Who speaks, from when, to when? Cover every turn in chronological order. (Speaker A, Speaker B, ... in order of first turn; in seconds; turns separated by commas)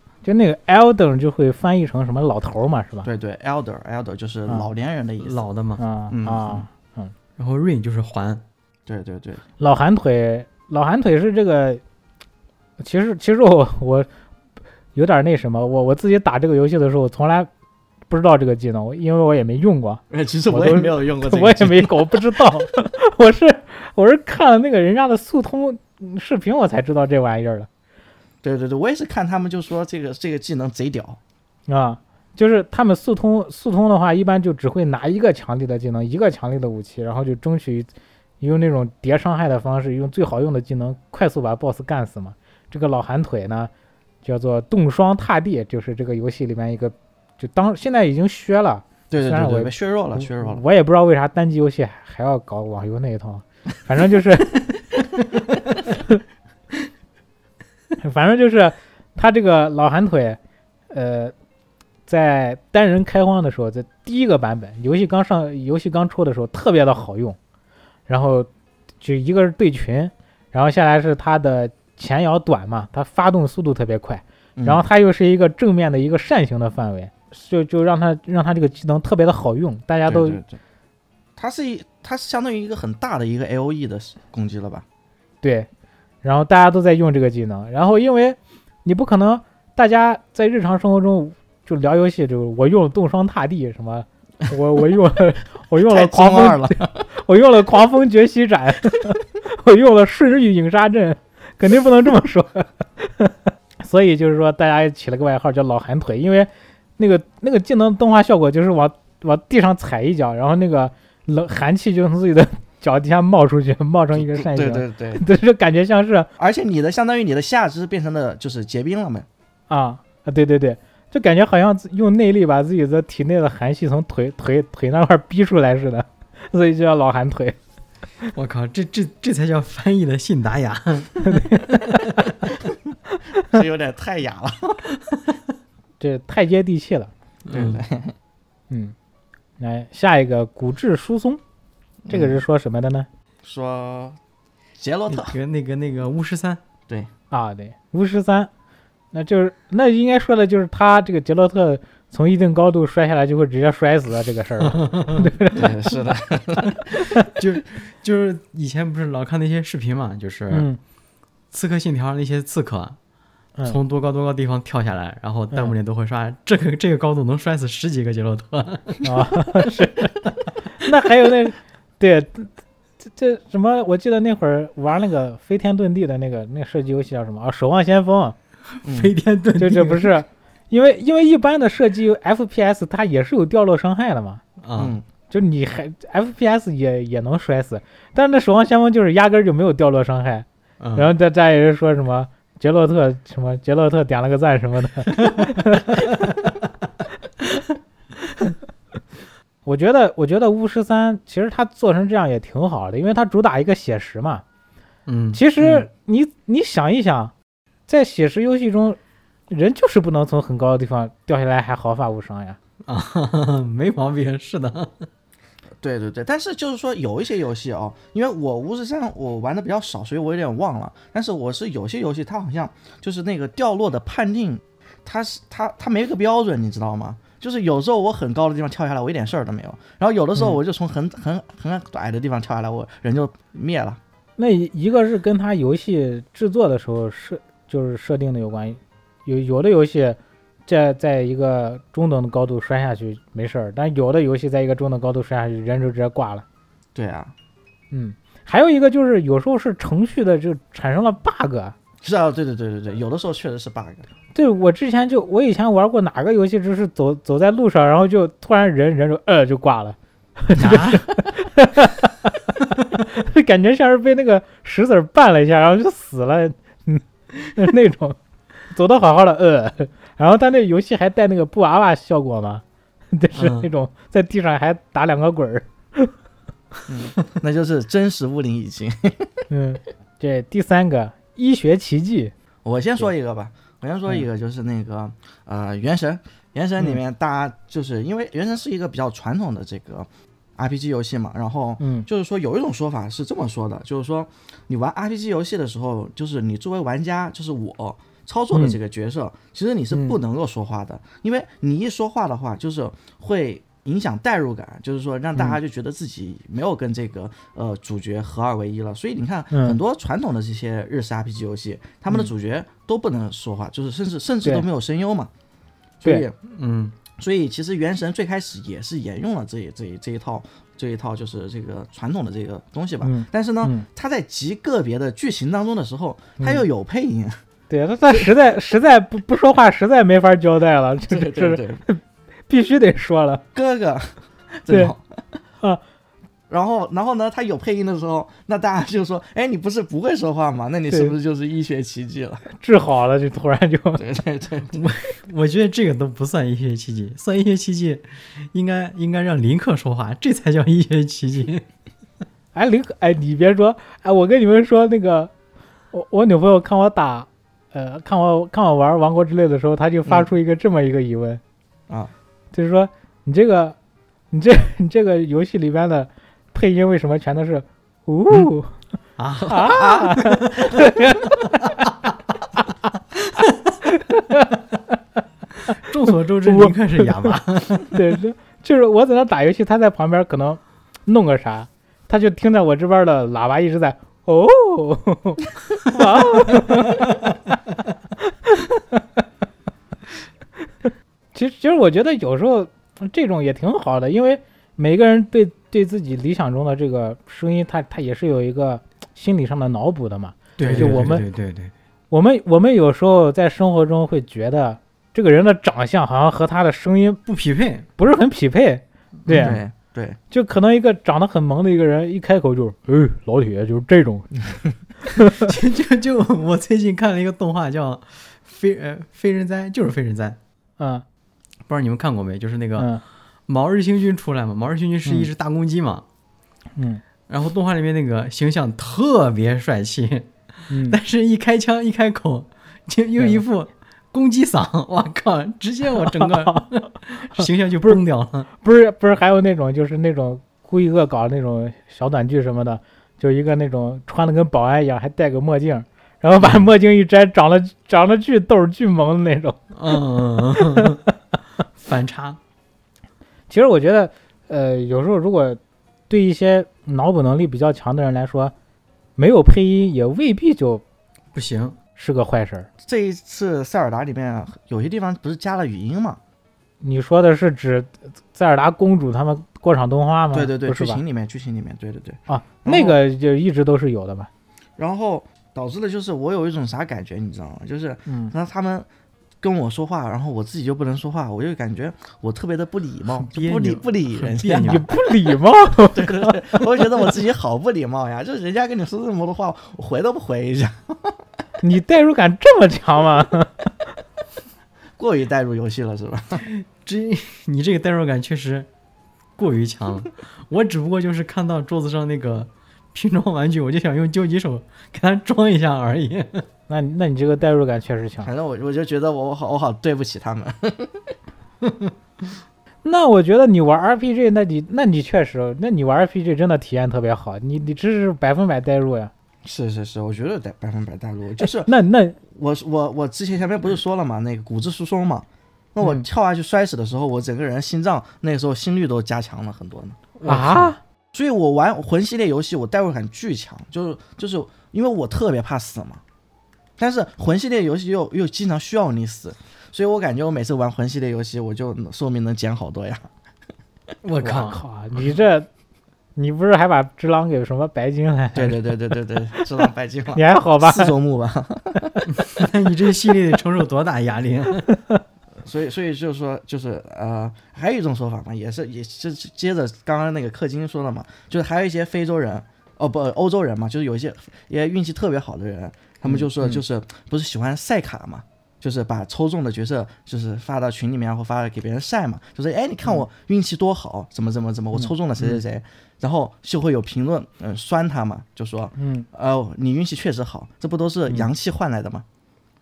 Speaker A: 0.2-3.1, Speaker B: 3.0-5.4, Speaker C: 5.2-5.8, Speaker A: 5.8-7.1, Speaker B: 6.1-6.7, Speaker C: 7.4-8.4, Speaker B: 8.8-9.4, Speaker A: 9.6-11.8, Speaker A: 12.8-14.1, Speaker A: 14.9-17.5, Speaker A: 18.1-27.7, Speaker B: 20.1-22.6, Speaker B: 28.4-31.2, Speaker A: 31.7-37.9, Speaker A: 38.4-43.7, Speaker A: 44.2-54.6, Speaker B: 49.1-50.6, Speaker A: 58.0-60.4, Speaker A: 60.9-61.3, Speaker A: 62.1-67.4, Speaker A: 68.1-68.5, Speaker A: 69.0-80.4, Speaker B: 74.5-74.8, Speaker B: 80.0-80.6, Speaker B: 81.4-84.8, Speaker A: 85.4-85.7, Speaker A: 86.2-116.3, Speaker B: 95.8-97.1, Speaker B: 114.1-115.2, Speaker B: 116.4-119.3, Speaker A: 119.7-127.6, Speaker C: 128.3-132.0, Speaker A: 131.2-132.2, Speaker B: 133.4-134.8, Speaker A: 136.0-137.1, Speaker C: 137.4-137.8, Speaker B: 137.5-138.2, Speaker A: 138.7-138.9, Speaker A: 139.6-141.4, Speaker B: 142.1-142.3, Speaker A: 142.1-143.1, Speaker B: 143.4-144.2, Speaker B: 144.8-145.3, Speaker C: 145.1-146.6, Speaker A: 147.3-148.5, Speaker A: 149.1-155.7, Speaker C: 154.6-155.3, Speaker B: 155.5-156.8, Speaker C: 157.3-160.7, Speaker A: 160.5-160.8, Speaker C: 161.5-163.0, Speaker C: 163.6-169.0, Speaker A: 169.0-170.1, Speaker A: 170.8-172.5, Speaker A: 173.0-178.3, Speaker C: 178.8-180.1, Speaker B: 178.8-179.1, Speaker A: 179.6-184.4, Speaker C: 184.6-184.9, Speaker B: 184.8-185.0, Speaker A: 185.3-196.1, Speaker C: 190.8-191.1, Speaker A: 199.7-204.4, Speaker C: 205.1-205.8, Speaker A: 205.3-207.3, Speaker A: 207.9-209.0, Speaker A: 209.5-212.6, Speaker C: 212.8-215.1, Speaker B: 215.8-234.0, Speaker A: 234.4-246.4, Speaker B: 246.9-247.3, Speaker A: 247.9-251.7, Speaker B: 252.0-254.1, Speaker A: 254.3-268.2, Speaker C: 260.6-261.0, Speaker A: 268.7-276.1, Speaker C: 273.3-273.7, Speaker B: 276.9-279.4, Speaker A: 279.5-282.3, Speaker B: 282.6-315.3, Speaker A: 291.8-292.1, Speaker A: 309.5-309.8, Speaker B: 316.0-316.3, Speaker C: 316.5-316.9, Speaker B: 317.1-327.4, Speaker A: 323.0-323.9, Speaker A: 326.4-326.6, Speaker A: 327.7-333.4, Speaker B: 331.1-331.8, Speaker B: 333.5-335.4, Speaker B: 336.5-342.4, Speaker A: 342.6-344.0, Speaker B: 344.0-344.8, Speaker C: 344.7-351.6, Speaker A: 352.5-355.3, Speaker A: 355.9-361.4, Speaker A: 362.5-363.8, Speaker A: 364.3-368.8, Speaker C: 369.2-370.7, Speaker B: 369.4-370.3, Speaker A: 369.5-371.8, Speaker A: 373.9-374.5, Speaker C: 375.7-378.0, Speaker A: 376.4-377.4, Speaker A: 377.9-387.2, Speaker A: 388.5-389.0, Speaker A: 391.3-401.2, Speaker C: 400.6-401.7, Speaker B: 400.6-401.1, Speaker A: 402.1-407.2, Speaker C: 407.2-407.9, Speaker A: 408.0-409.6, Speaker C: 409.3-409.6, Speaker B: 409.4-410.2, Speaker A: 410.3-414.3, Speaker A: 415.1-415.5, Speaker C: 415.3-420.4, Speaker A: 420.8-421.0, Speaker C: 421.7-422.9, Speaker C: 423.5-426.0, Speaker A: 426.8-427.0, Speaker C: 427.3-438.5, Speaker A: 430.7-431.0, Speaker A: 436.0-436.6, Speaker A: 437.4-438.0, Speaker A: 438.6-450.0, Speaker C: 449.7-451.0, Speaker A: 450.6-451.0, Speaker C: 451.8-452.4, Speaker A: 453.5-458.5, Speaker A: 459.2-460.8, Speaker C: 461.3-461.8, Speaker A: 462.0-462.7, Speaker B: 462.8-466.2, Speaker A: 466.8-471.0, Speaker B: 470.3-473.0, Speaker A: 472.3-474.3, Speaker B: 474.8-478.9, Speaker A: 478.1-478.3, Speaker B: 479.4-484.8, Speaker C: 483.2-484.9, Speaker A: 484.6-486.8, Speaker B: 485.9-491.1, Speaker A: 491.6-493.7, Speaker B: 495.0-496.4, Speaker C: 496.4-498.7, Speaker C: 499.4-506.4, Speaker A: 506.7-508.3, Speaker B: 508.2-511.1, Speaker A: 512.8-519.1, Speaker B: 519.4-521.7, Speaker A: 521.4-522.2, Speaker B: 522.3-530.0, Speaker C: 530.2-530.7, Speaker A: 530.2-530.8, Speaker B: 531.1-536.0, Speaker B: 536.8-543.1, Speaker C: 544.0-544.6, Speaker A: 544.2-545.5, Speaker A: 546.1-548.7, Speaker B: 548.3-552.0, Speaker A: 550.1-550.9, Speaker C: 552.1-554.7, Speaker B: 555.4-582.0, Speaker A: 578.8-579.1